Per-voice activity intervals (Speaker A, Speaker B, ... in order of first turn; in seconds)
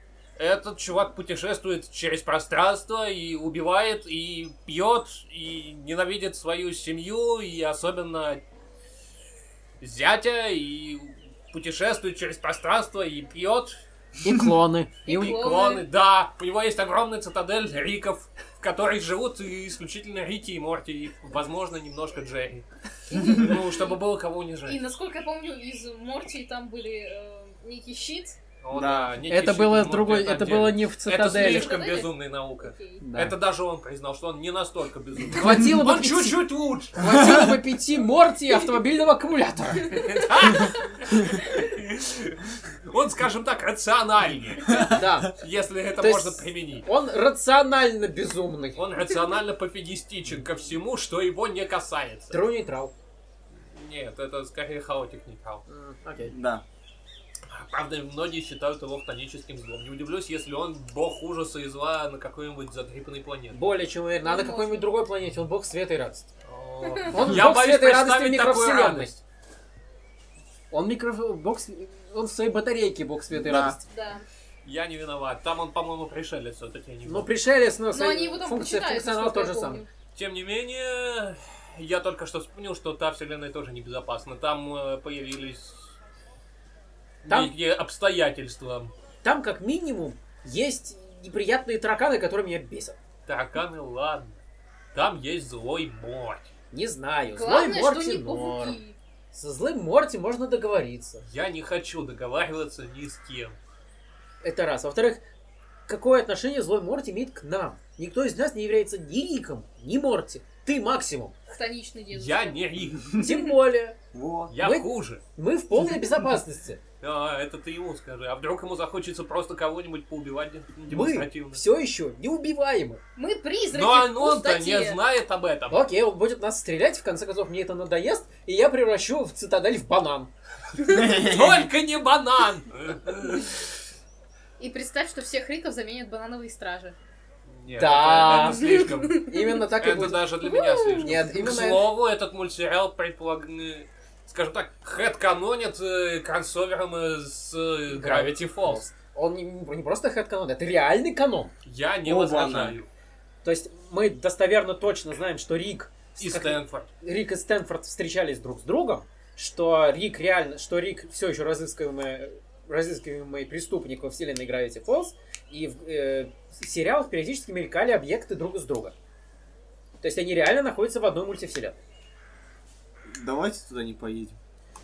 Speaker A: 0.3-8.4, 9.8-13.8, 15.1-22.7, 23.2-24.8, 28.6-37.2, 39.9-46.9, 48.8-52.4, 53.5-55.6, 57.5-63.6, 66.4-69.2, 74.6-77.3, 80.1-85.9, 87.2-88.9, 93.2-94.4, 94.9-96.5, 101.2-103.6, 112.1-113.1, 114.5-115.2, 117.0-121.6, 123.7-125.8, 131.1-133.7, 137.5-148.8, 151.6-152.9, 156.2-156.9
Speaker B: 14.2-15.3, 29.3-31.7, 33.0-33.4, 35.3-40.0, 44.9-45.4, 46.0-48.8, 52.3-52.9, 55.7-56.3, 63.5-66.3, 67.1-69.1, 70.7-73.8, 77.0-79.8, 87.3-87.5, 89.2-93.0, 96.7-98.8, 99.3-101.2, 104.4-105.2, 105.9-111.3, 113.1-114.0, 114.6-116.8, 120.9-123.0, 125.7-130.3, 137.7-138.7, 139.3-140.3, 140.9-141.9, 147.9-151.5, 153.4-168.9, 170.0-171.8
Speaker C: 15.1-15.9, 23.1-23.9, 24.6-28.4, 31.2-33.0, 39.9-41.7, 64.2-64.9, 66.8-67.1, 73.9-74.2, 77.9-79.9, 97.3-99.0, 111.5-112.6, 113.1-113.5, 123.2-125.0, 134.6-136.9, 138.2-139.6, 140.4-141.1
Speaker D: 28.7-29.2, 44.7-45.1, 56.3-56.6, 73.3-73.8, 114.1-114.5, 130.9-131.7, 152.0-152.8, 173.1-174.4